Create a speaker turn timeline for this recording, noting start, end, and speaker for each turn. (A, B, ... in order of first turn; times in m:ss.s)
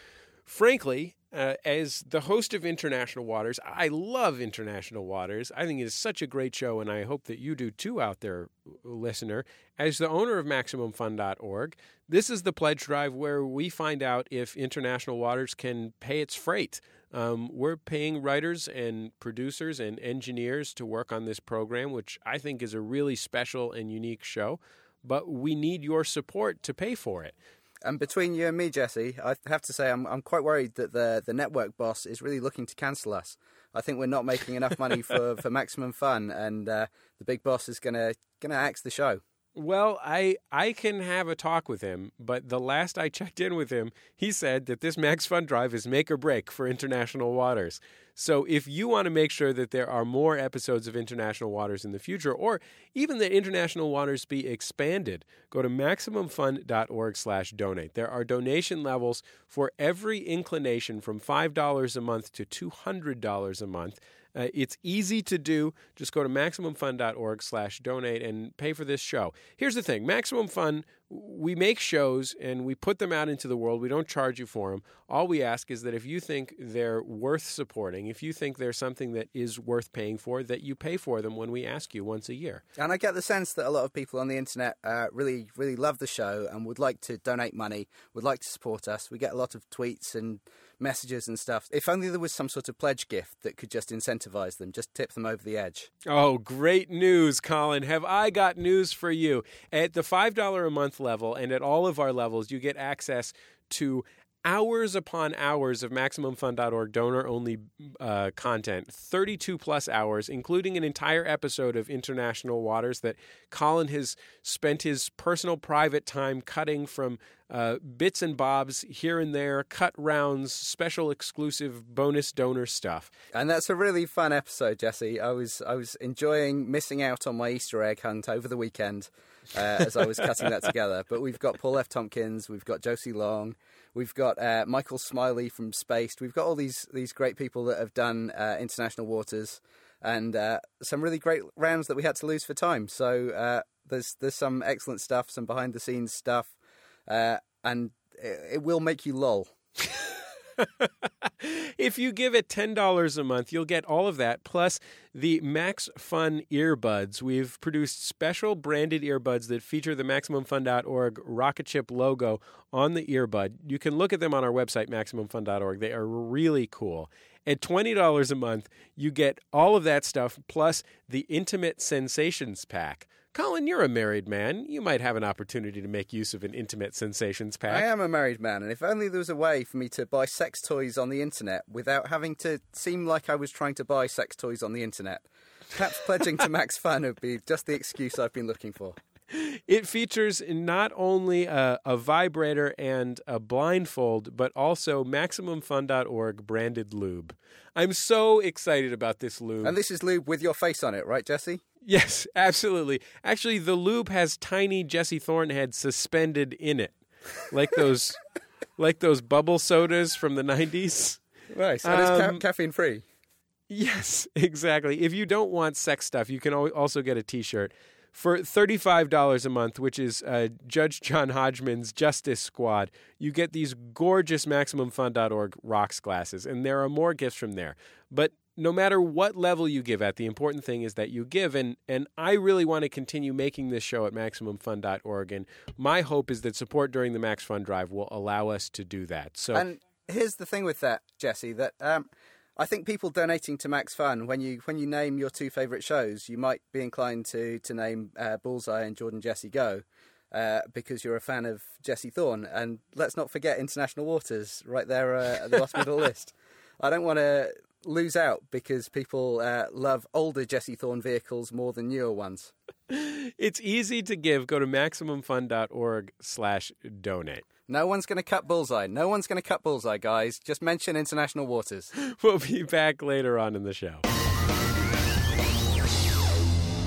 0:00.4-0:27.3 A
0:27.8-0:39.2 B
0:39.6-1:22.6 A
1:22.8-1:35.9 B
1:36.1-2:03.1 A
2:03.3-2:26.6 B
2:27.1-2:29.5 B
2:30.6-2:57.9 A
2:57.7-3:09.0 B
3:09.3-3:19.7 A
3:19.6-3:21.6 B
3:21.8-3:28.2 A
3:28.8-3:31.2 A
3:31.5-3:33.0 B
3:31.8-3:32.4 A
3:33.7-3:59.7 A
3:59.5-4:22.5 B
4:22.9-4:27.4 A
4:27.7-4:31.9 B
4:32.0-4:34.0 A